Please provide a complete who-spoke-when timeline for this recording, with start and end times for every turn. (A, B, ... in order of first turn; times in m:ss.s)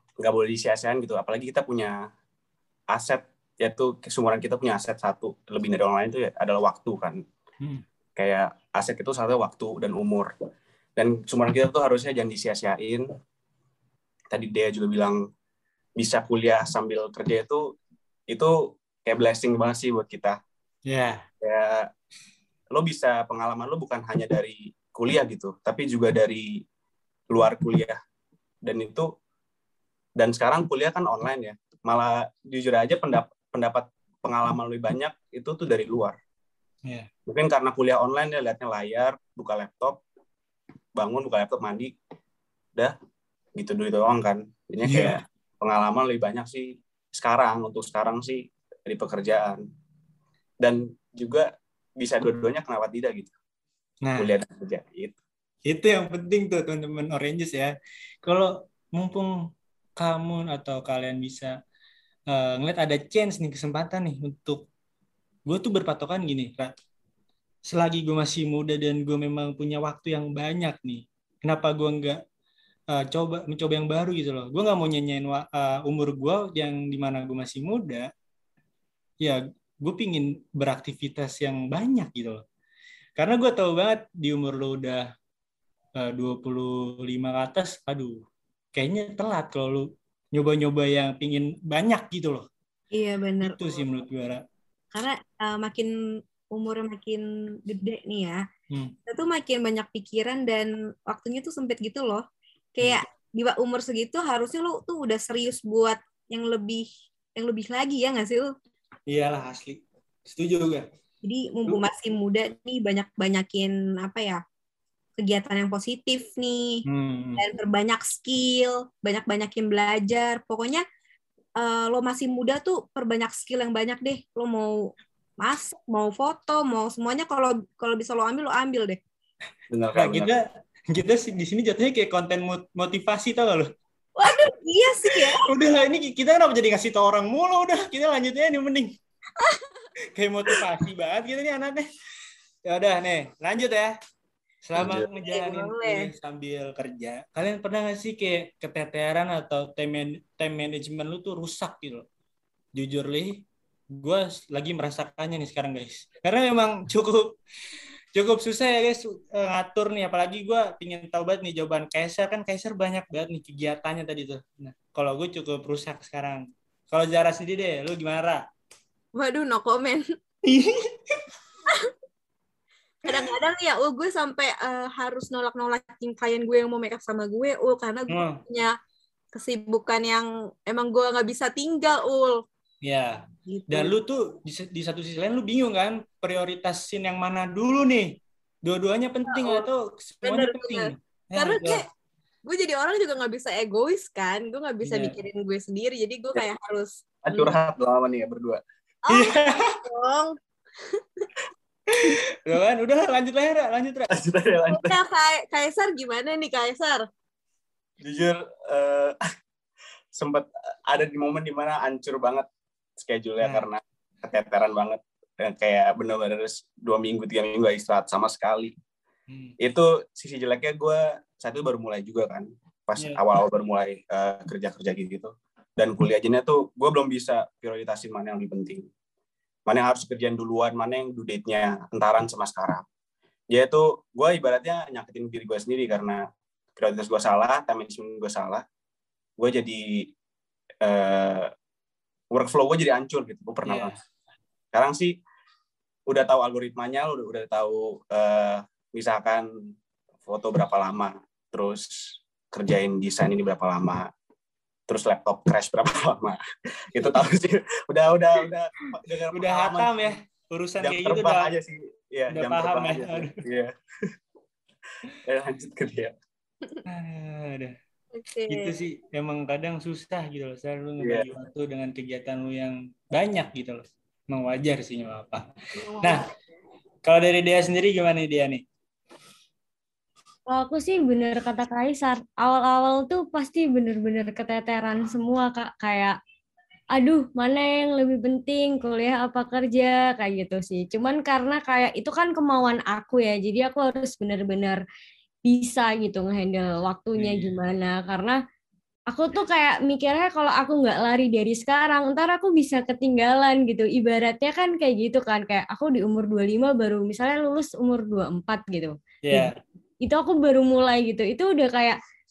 0:00.2-0:02.0 A
0:02.9-0:07.2 A
0:08.2-0:10.3 A
0:11.0-0:13.0 A
0:14.3-0:15.2 A
0:16.0-0:17.7 A
0:18.3-0:20.4 A
0:20.9-0:21.2 B
0:21.4-0:21.9 A
0:22.7-0:26.6 A
0:27.3-0:28.0 A
0:28.6-0:29.1 A
0:30.2-0:36.2 A
0:37.3-0:40.0 A
0:41.0-0:41.9 A
0:43.6-0:49.6 A
0:44.8-0:45.2 B
0:50.6-0:51.5 A
0:52.0-0:53.3 A
0:54.0-0:54.3 B
0:54.2-0:55.2 A
0:55.7-0:57.7 B
0:58.2-0:59.3 B
1:00.0-1:01.5 B
1:02.3-1:04.6 B
1:05.5-1:06.7 B
1:07.7-1:12.2 B
1:12.9-1:18.1 B
1:19.2-1:22.4 B
1:23.2-1:25.0 B
1:26.0-1:28.2 B
1:28.7-1:32.4 B
1:32.9-1:33.6 C
1:33.4-1:34.4 B
1:34.9-1:35.9 C
1:36.5-1:38.4 C
1:39.1-1:42.2 C
1:42.8-1:48.5 C
1:49.1-1:50.9 B
1:51.2-1:54.4 C
1:55.2-1:56.8 C
1:56.9-1:57.4 B
1:57.4-2:00.8 C
2:01.6-2:09.0 C
2:09.7-2:10.3 A
2:09.9-2:13.7 B
2:14.2-2:15.4 C
2:15.1-2:18.9 B
2:19.4-2:19.8 C
2:20.1-2:21.8 B
2:22.7-2:23.9 B
2:24.6-2:32.0 B
2:24.8-2:25.0 A
2:24.8-2:26.1 C
2:32.7-2:33.4 B
2:34.0-2:37.4 B
2:38.1-2:48.4 B
2:49.2-2:50.0 C
2:50.4-2:51.2 B
2:53.0-2:58.7 C
2:58.1-2:58.4 B
2:59.3-3:02.4 C
3:02.8-3:11.8 B
3:03.4-3:03.9 C
3:09.3-3:09.6 C
3:10.2-3:11.8 C
3:12.4-3:17.5 C
3:14.8-3:15.2 B
3:17.2-3:18.6 A
3:19.1-3:20.3 C
3:19.1-3:19.8 B
3:20.9-3:21.3 C
3:21.9-3:24.1 B
3:24.1-3:24.9 A
3:24.7-3:27.0 C
3:28.0-3:29.2 A
3:30.2-3:32.4 A
3:33.0-3:38.7 A
3:33.4-3:33.7 B
3:39.3-3:39.6 B
3:39.6-3:48.9 A
3:49.7-3:52.8 A
3:53.5-3:56.2 A
3:56.8-3:58.6 A
3:59.4-4:00.1 A
4:00.8-4:01.5 A
4:02.3-4:04.0 A
4:03.6-4:03.9 B
4:04.7-4:05.2 A
4:06.1-4:09.5 A
4:10.2-4:14.1 A
4:14.9-4:16.4 A
4:16.9-4:20.1 A
4:19.3-4:21.5 B
4:20.8-4:23.7 A
4:22.3-4:23.3 B
4:25.2-4:26.1 A
4:26.8-4:27.7 B
4:28.2-4:28.7 C
4:28.5-4:35.4 B
4:31.0-4:31.2 A
4:35.8-4:36.2 C
4:36.0-4:36.2 B
4:37.0-4:38.6 B
4:40.5-4:46.2 D
4:47.0-4:54.8 D
4:55.4-4:58.4 D
4:57.2-4:57.5 B
4:59.1-5:09.5 D
5:09.2-5:09.6 B
5:10.0-5:12.0 D